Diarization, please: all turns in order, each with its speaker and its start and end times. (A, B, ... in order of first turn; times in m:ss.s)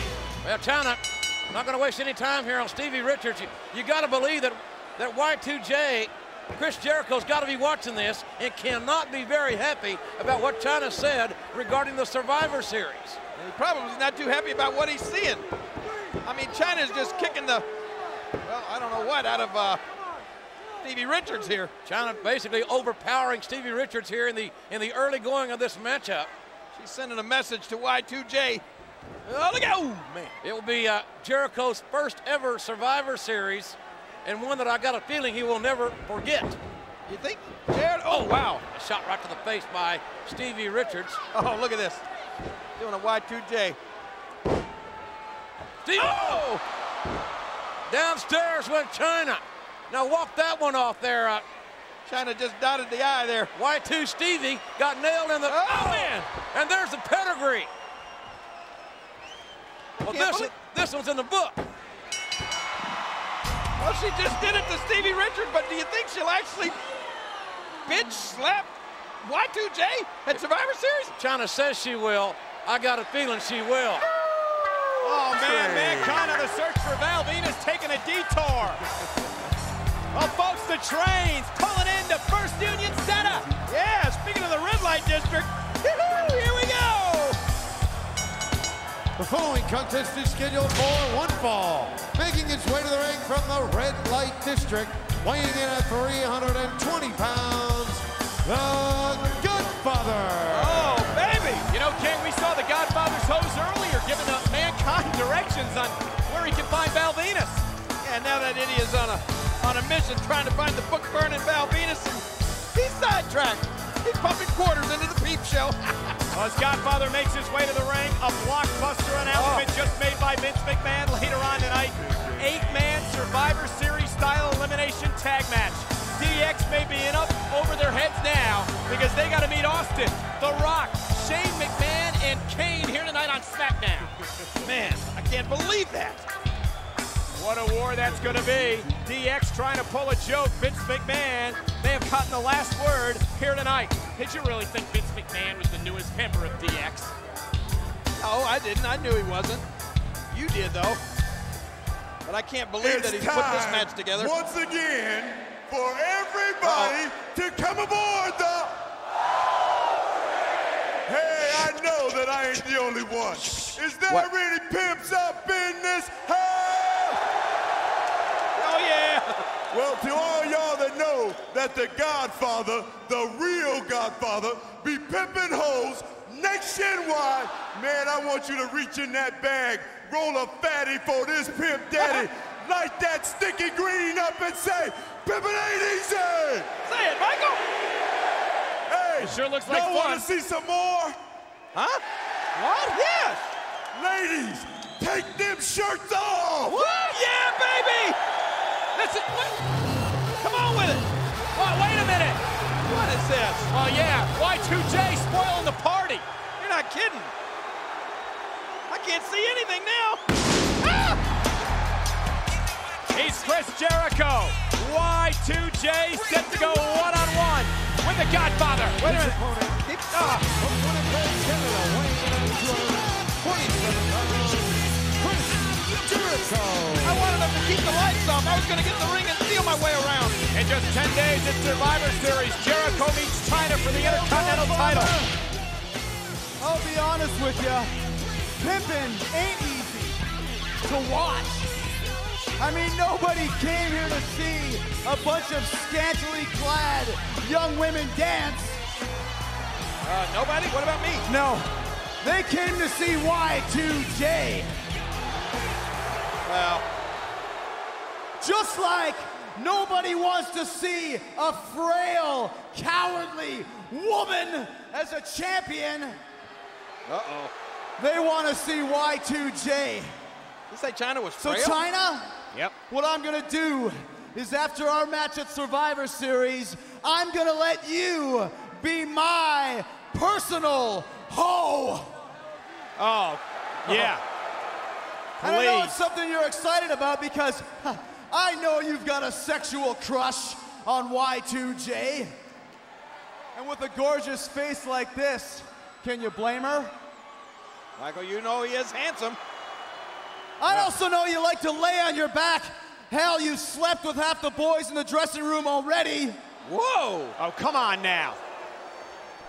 0:00.4-0:13.2 A
0:13.4-0:15.4 B
0:16.2-0:17.6 B
0:18.4-0:19.8 B
0:20.8-0:21.7 B
0:21.8-0:26.3 A
0:26.7-0:28.6 B
0:29.2-0:30.3 B
0:30.4-0:36.6 A
0:37.1-0:38.6 B
0:38.1-0:41.2 A
0:41.3-0:42.0 B
0:42.8-0:43.8 B
0:45.8-0:46.5 A
0:45.9-0:46.6 B
0:47.9-0:51.4 A
0:52.1-0:53.5 B
0:53.5-0:57.7 A
0:55.4-0:56.3 B
1:00.0-1:00.5 B
1:00.0-1:01.6 A
1:03.8-1:06.8 B
1:07.9-1:11.1 B
1:11.2-1:14.1 A
1:14.3-1:16.4 B
1:15.0-1:18.8 C
1:20.1-1:23.5 C
1:23.7-1:27.4 B
1:29.2-1:41.4 D
1:40.5-1:41.6 B
1:41.7-1:47.6 C
1:48.0-1:56.2 B
1:56.3-2:14.1 C
1:59.3-1:59.7 B
2:14.6-2:16.2 B
2:17.4-2:27.1 C
2:28.2-2:29.6 B
2:30.3-2:31.0 B
2:32.2-2:34.4 B
2:32.8-2:38.7 E
2:36.6-2:37.0 B
2:41.1-2:47.2 E
2:48.6-2:49.4 B
2:49.7-3:06.7 E
3:02.0-3:02.2 B
3:06.9-3:07.6 B
3:08.9-3:11.2 E
3:09.2-3:10.3 C
3:11.7-3:12.0 B
3:12.6-3:13.5 B
3:13.9-3:16.8 E
3:16.6-3:18.2 B
3:18.9-3:19.6 B
3:20.4-3:21.1 B
3:21.6-3:22.4 C
3:22.9-3:23.7 B
3:23.7-3:26.2 C
3:26.6-3:27.3 B
3:28.9-3:30.2 B
3:30.8-3:31.2 B
3:33.1-3:39.4 C
3:39.0-3:40.5 B
3:39.2-3:39.8 D
3:40.5-3:47.2 D
3:47.0-3:50.4 B
3:50.5-3:55.1 C
3:53.9-3:55.4 F
3:56.6-3:57.9 F
3:58.6-4:00.2 F
4:00.8-4:01.7 F
4:02.6-4:08.8 F
4:10.0-4:11.2 B
4:11.2-4:11.7 F
4:12.2-4:14.8 F
4:16.4-4:16.8 B
4:18.4-4:26.2 F
4:27.1-4:27.5 B
4:28.0-4:30.1 F
4:30.7-4:31.8 B
4:31.4-4:32.3 F
4:32.9-4:42.1 F
4:43.0-4:44.2 C
4:43.9-4:44.1 B
4:45.4-4:45.9 C
4:45.4-4:52.4 F
4:53.6-4:56.9 F
4:58.0-4:59.4 B
5:00.6-5:06.4 F
5:06.6-5:07.4 B
5:07.4-5:08.4 C